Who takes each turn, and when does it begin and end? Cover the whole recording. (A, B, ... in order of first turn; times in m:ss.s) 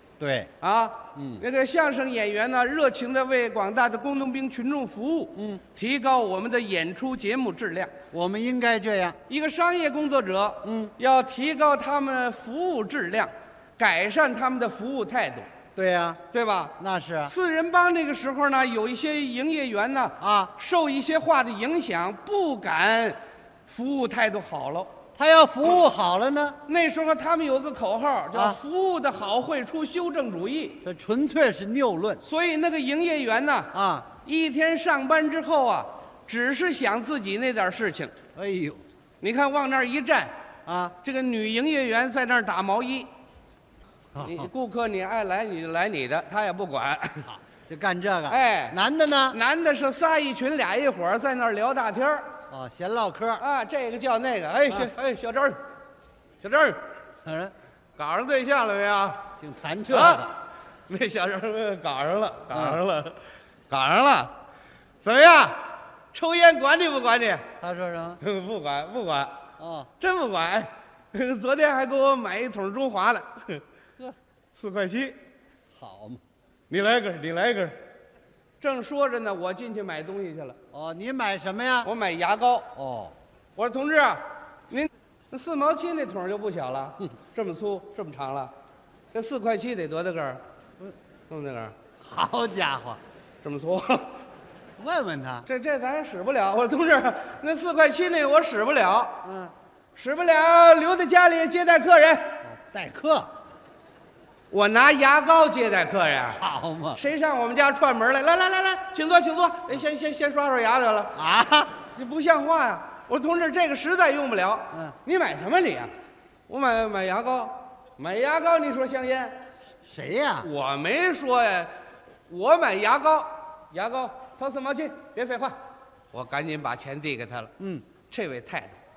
0:00.2-0:00.5 A
0:00.6-0:07.9 B
0:01.2-0:01.4 A
0:05.4-0:05.6 A
0:08.1-0:09.2 A
0:09.3-0:15.5 B
0:10.6-0:10.9 A
0:15.8-0:16.2 A
0:16.3-0:24.9 B
0:16.8-0:17.3 A
0:20.2-0:20.5 A
0:25.2-0:26.6 A
0:26.7-0:30.8 B
0:28.3-0:28.6 A
0:30.8-0:32.2 A
0:32.2-0:38.1 B
0:33.7-0:34.1 A
0:38.4-0:38.8 A
0:39.2-0:40.3 B
0:40.7-0:41.0 A
0:41.0-0:43.1 B
0:44.2-0:44.5 A
0:44.2-0:47.3 B
0:47.2-0:49.4 A
0:48.3-0:48.8 B
0:49.3-0:52.3 B
0:52.5-0:53.4 A
0:53.4-0:55.6 B
0:56.4-0:56.9 B
0:57.2-0:57.5 A
0:58.0-0:59.2 B
0:59.4-1:00.3 A
0:59.9-1:00.3 B
1:00.9-1:03.2 B
1:02.5-1:02.8 A
1:03.7-1:04.3 B
1:05.0-1:07.5 B
1:07.6-1:08.2 A
1:08.2-1:09.3 B
1:09.6-1:09.9 A
1:10.0-1:13.6 B
1:14.6-1:15.2 B
1:15.7-1:16.2 A
1:16.7-1:17.8 B
1:18.6-1:20.6 B
1:20.7-1:21.9 A
1:21.8-1:22.7 B
1:22.7-1:23.1 A
1:23.6-1:28.5 B
1:29.1-1:30.4 B
1:31.3-1:31.7 B
1:32.0-1:33.0 A
1:33.4-1:34.2 B
1:34.8-1:35.5 A
1:35.5-1:39.2 B
1:39.2-1:39.5 A
1:39.9-1:42.4 B
1:42.4-1:43.3 A
1:44.5-1:46.4 B
1:46.3-1:47.0 A
1:47.0-1:51.2 B
1:51.2-1:51.7 A
1:51.9-1:55.9 B
1:56.5-1:59.4 B
1:59.8-2:00.5 A
2:00.4-2:01.7 B
2:02.3-2:05.6 B
2:06.1-2:07.5 B
2:07.6-2:07.9 A
2:08.1-2:08.8 B